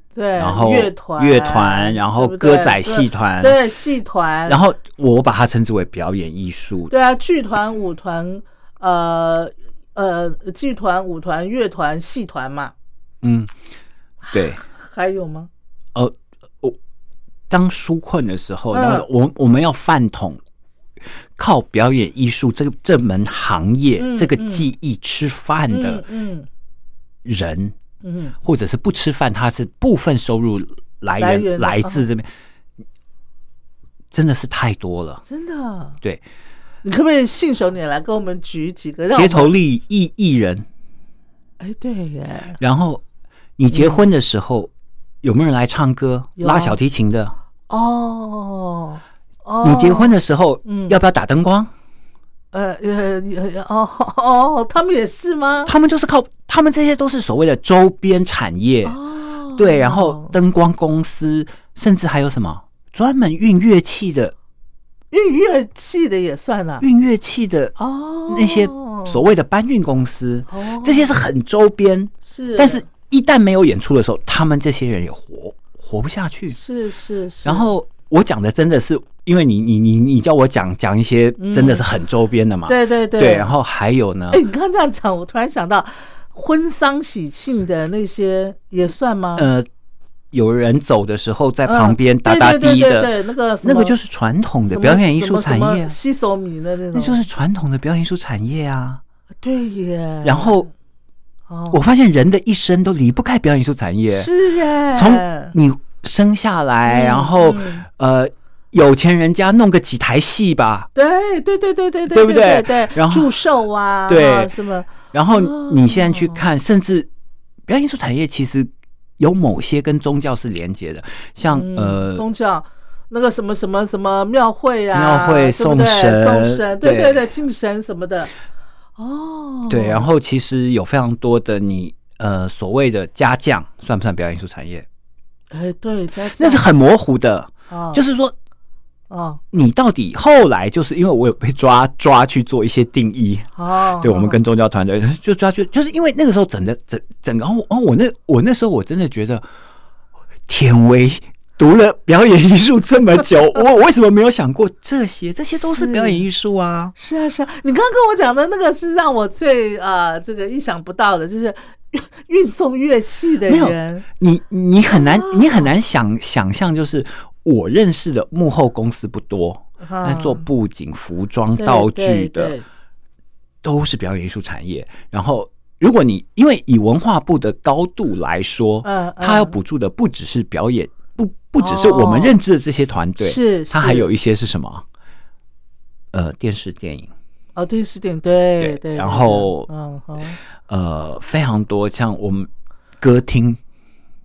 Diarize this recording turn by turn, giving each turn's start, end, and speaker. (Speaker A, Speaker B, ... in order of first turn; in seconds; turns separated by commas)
Speaker A: 0.1-4.6, Speaker B: 0.4-3.6, Speaker B: 4.5-6.9, Speaker A: 6.9-12.7, Speaker B: 13.2-13.5, Speaker A: 14.3-15.5, Speaker B: 14.3-14.6, Speaker B: 15.9-16.8, Speaker B: 17.5-20.4, Speaker A: 18.7-19.1, Speaker B: 21.4-26.0, Speaker A: 24.0-24.7, Speaker A: 25.7-26.5, Speaker B: 27.2-27.8, Speaker A: 28.0-28.4, Speaker B: 28.4-32.3, Speaker A: 31.2-32.0, Speaker B: 34.1-35.2, Speaker A: 35.3-36.0, Speaker A: 36.8-39.5, Speaker B: 39.1-40.7, Speaker A: 41.6-42.6, Speaker B: 42.6-43.0, Speaker B: 43.6-44.7, Speaker A: 43.7-44.0, Speaker B: 45.2-47.4, Speaker A: 46.4-46.8, Speaker A: 47.7-51.0, Speaker B: 49.6-51.7, Speaker A: 52.5-55.7, Speaker B: 55.6-59.0, Speaker A: 58.9-60.4, Speaker B: 59.6-64.3, Speaker A: 65.1-66.8, Speaker B: 66.8-67.8, Speaker A: 67.8-69.2, Speaker B: 68.3-76.6, Speaker A: 70.5-71.2, Speaker A: 72.3-72.8, Speaker A: 76.5-77.7, Speaker B: 77.5-84.4, Speaker A: 81.4-81.9, Speaker A: 82.7-83.5, Speaker A: 84.3-89.5, Speaker B: 89.4-89.7, Speaker B: 90.3-96.0, Speaker A: 91.7-94.0, Speaker A: 94.7-97.2, Speaker B: 96.9-99.0, Speaker A: 99.4-100.7, Speaker B: 100.2-100.7, Speaker A: 101.5-101.8, Speaker B: 101.7-104.3, Speaker A: 104.1-105.5, Speaker B: 104.9-110.9, Speaker A: 106.9-107.8, Speaker A: 111.0-116.4, Speaker B: 112.1-113.3, Speaker B: 114.1-114.5, Speaker B: 115.1-117.1, Speaker B: 117.7-122.2, Speaker A: 121.5-128.3, Speaker B: 124.9-127.2, Speaker A: 129.0-130.1, Speaker B: 129.7-134.9, Speaker A: 135.5-136.7, Speaker B: 136.4-138.3, Speaker A: 137.7-138.0, Speaker A: 139.1-139.4, Speaker B: 139.5-149.4, Speaker A: 143.6-144.4, Speaker B: 150.5-156.9, Speaker A: 155.6-156.2, Speaker A: 156.9-164.1, Speaker B: 163.5-172.6, Speaker A: 164.9-165.7, Speaker A: 169.8-170.4, Speaker A: 171.6-172.7, Speaker B: 173.6-184.8, Speaker A: 178.8-179.6, Speaker A: 181.6-182.4, Speaker A: 183.2-184.1, Speaker B: 186.1-187.1, Speaker A: 187.6-190.4, Speaker B: 188.6-189.7, Speaker B: 190.7-193.6